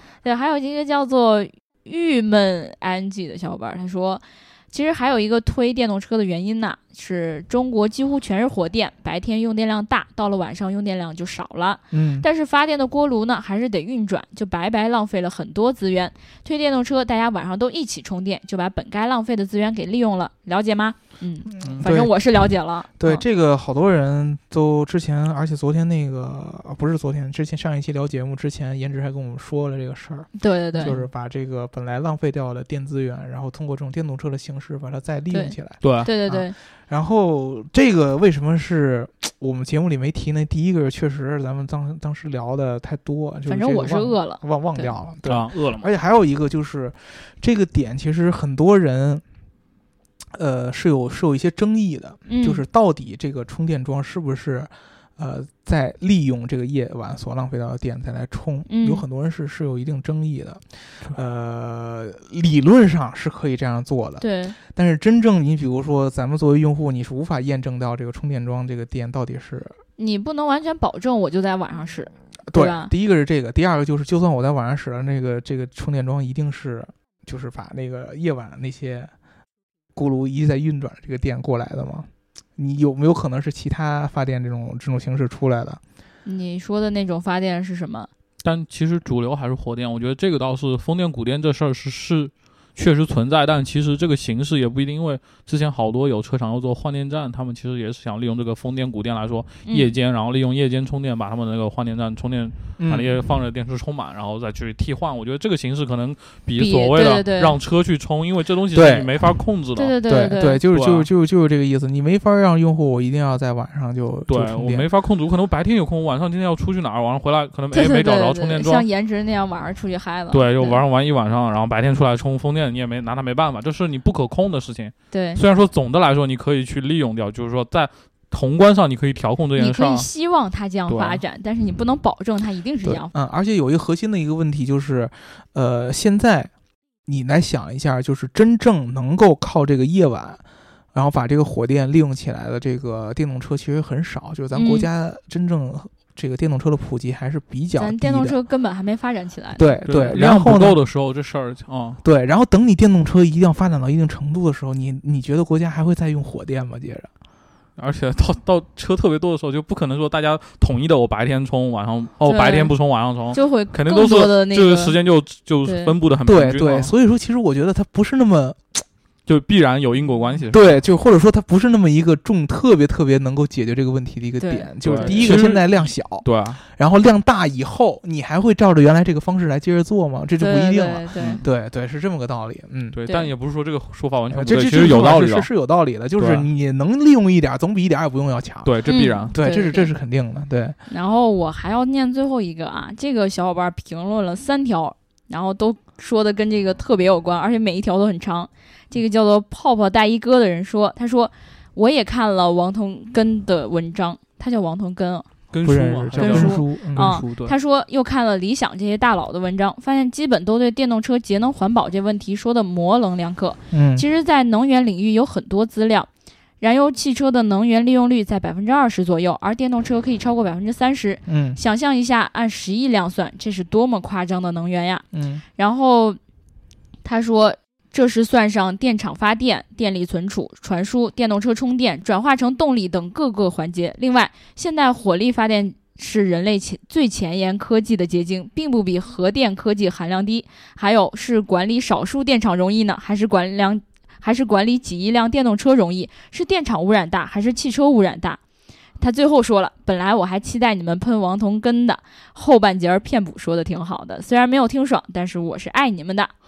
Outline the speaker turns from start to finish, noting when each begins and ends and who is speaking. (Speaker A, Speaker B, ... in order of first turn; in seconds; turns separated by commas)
Speaker A: 0.2-23.2, Speaker B: 11.9-12.2, Speaker B: 21.6-22.1, Speaker B: 23.0-49.2, Speaker A: 30.4-30.9, Speaker A: 35.3-36.5, Speaker C: 35.8-36.1, Speaker A: 43.5-44.9, Speaker C: 45.2-45.9, Speaker B: 50.3-69.8, Speaker A: 52.3-52.6, Speaker A: 58.7-59.0, Speaker A: 64.2-64.5, Speaker A: 70.0-72.9, Speaker B: 72.5-79.1, Speaker B: 79.9-85.8, Speaker A: 86.2-88.1, Speaker C: 88.4-109.9, Speaker A: 99.7-99.9, Speaker B: 102.8-103.2, Speaker A: 106.6-107.5, Speaker B: 108.7-109.1, Speaker A: 109.8-110.6, Speaker B: 110.0-114.9, Speaker C: 110.7-111.1, Speaker C: 114.3-118.9, Speaker A: 117.7-120.8, Speaker C: 120.3-130.1, Speaker A: 125.1-125.4, Speaker A: 129.6-133.1, Speaker C: 130.9-131.2, Speaker B: 133.1-136.5, Speaker B: 137.1-140.4, Speaker B: 140.9-148.4, Speaker A: 144.5-144.9, Speaker A: 147.8-149.8, Speaker B: 149.6-150.8, Speaker C: 149.9-152.0, Speaker B: 152.0-157.1, Speaker C: 157.8-166.9, Speaker A: 162.2-162.7, Speaker A: 163.3-165.0, Speaker A: 165.6-165.9, Speaker B: 166.2-168.8, Speaker C: 169.2-170.7, Speaker B: 170.5-183.0, Speaker A: 174.4-175.4, Speaker C: 174.8-176.6, Speaker A: 180.4-181.4, Speaker C: 182.9-185.5, Speaker B: 184.3-190.8, Speaker C: 186.2-186.5, Speaker C: 188.6-189.3, Speaker A: 188.9-189.9, Speaker A: 190.9-205.3, Speaker C: 205.5-207.5, Speaker B: 205.6-207.2, Speaker A: 206.2-216.1, Speaker B: 213.7-214.0, Speaker A: 216.6-225.0, Speaker B: 221.3-221.6, Speaker B: 225.1-225.4, Speaker A: 225.6-226.2, Speaker A: 227.0-248.4, Speaker A: 249.0-256.3